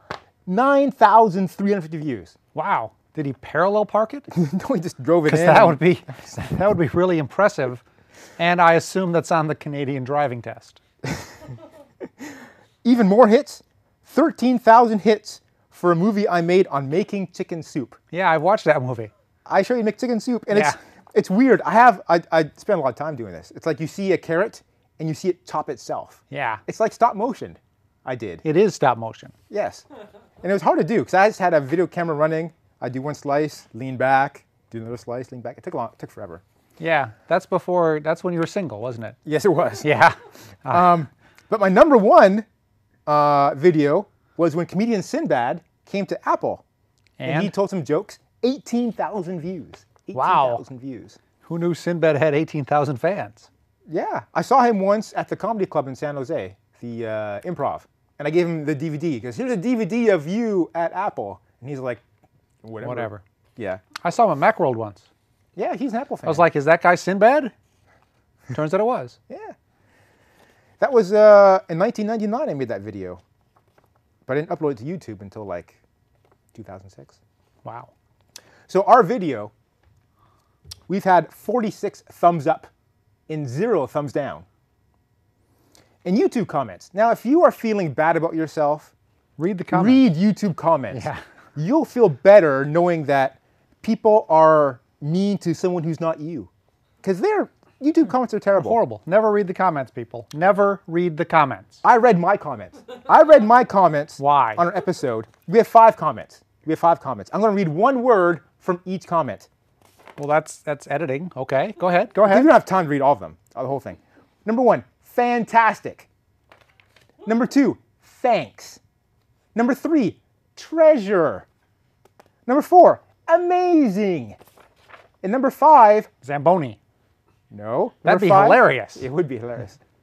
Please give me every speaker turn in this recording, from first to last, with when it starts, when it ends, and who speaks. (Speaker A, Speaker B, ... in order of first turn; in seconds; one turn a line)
Speaker A: 0.5-2.4
Speaker B: 2.5-4.3
Speaker A: 4.3-6.1
Speaker B: 5.3-7.8
Speaker B: 8.4-10.8
Speaker A: 12.8-18.0
Speaker B: 18.1-19.1
Speaker A: 19.5-28.4
Speaker B: 20.5-20.8
Speaker B: 26.3-26.6
Speaker B: 28.4-29.3
Speaker A: 29.5-29.9
Speaker A: 30.4-36.4
Speaker B: 36.8-39.2
Speaker A: 39.2-40.0
Speaker B: 39.8-40.9
Speaker A: 40.7-42.5
Speaker A: 43.1-46.6
Speaker B: 47.2-47.5
Speaker A: 47.2-51.2
Speaker B: 50.1-50.6
Speaker B: 51.4-53.5
Speaker A: 53.9-62.0
Speaker A: 62.6-63.8
Speaker B: 62.8-63.2
Speaker B: 64.0-65.1
Speaker A: 65.6-66.5
Speaker B: 66.2-67.5
Speaker B: 68.5-69.2
Speaker A: 69.3-69.6
Speaker A: 70.8-73.2
Speaker A: 74.3-75.8
Speaker A: 76.5-77.2
Speaker B: 77.7-77.9
Speaker A: 78.7-79.5
Speaker A: 80.9-82.7
Speaker A: 83.3-84.5
Speaker A: 86.0-88.9
Speaker B: 89.4-90.0
Speaker A: 89.7-96.5
Speaker B: 90.9-91.2
Speaker A: 97.0-98.8
Speaker B: 98.5-101.8
Speaker A: 101.8-109.5
Speaker B: 104.2-104.7
Speaker B: 110.2-112.5
Speaker A: 112.2-116.1
Speaker A: 117.2-118.8
Speaker A: 119.5-121.5
Speaker A: 122.5-124.4
Speaker A: 125.2-126.1
Speaker B: 126.2-126.8
Speaker A: 127.5-129.8
Speaker B: 128.0-129.1